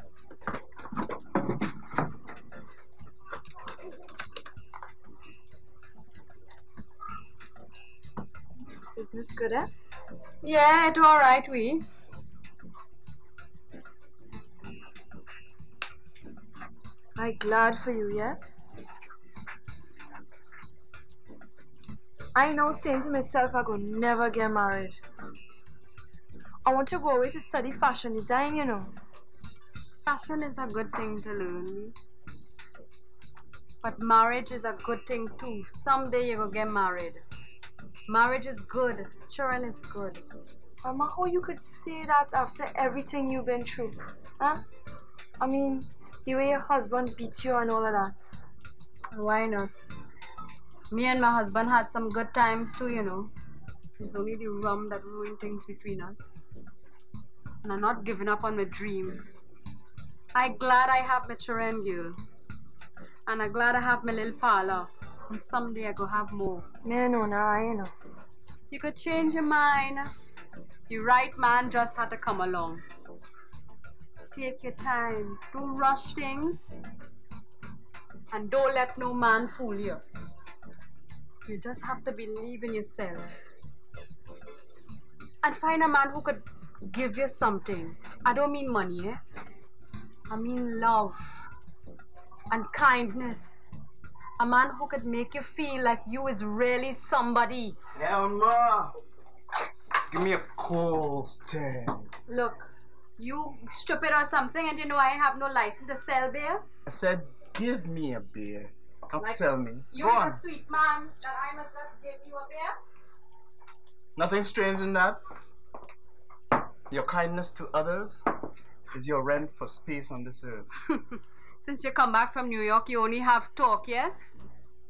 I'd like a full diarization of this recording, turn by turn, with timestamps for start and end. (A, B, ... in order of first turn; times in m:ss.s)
0:09.0-0:09.7 A
0:10.4-0:11.8 B
0:17.2-0:18.7 A
0:22.4-0:25.0 A
0:26.6-0:28.9 A
0:30.1-0:32.0 B
0:33.8-0:37.2 B
0:38.1-0:40.2 B
0:40.8-0:44.6 A
0:45.4-0:48.4 A
0:49.1-0:49.7 B
0:50.9-0:53.3 B
0:54.0-0:56.4 B
0:57.6-0:59.2 B
1:00.3-1:02.2 B
1:03.3-1:06.7 B
1:06.8-1:07.9 A
1:08.7-1:10.1 B
1:10.9-1:12.8 B
1:14.3-1:16.8 B
1:18.3-1:20.0 B
1:21.4-1:23.5 B
1:25.4-1:29.2 B
1:30.3-1:31.2 B
1:32.5-1:33.6 B
1:34.4-1:37.8 B
1:38.0-1:38.9 C
1:40.1-1:42.1 C
1:42.3-1:42.7 B
1:43.2-1:46.6 B
1:46.9-1:50.4 C
1:49.2-1:52.8 B
1:54.2-1:55.2 C
1:56.9-1:58.3 C
1:58.9-2:00.7 C
2:01.0-2:04.3 B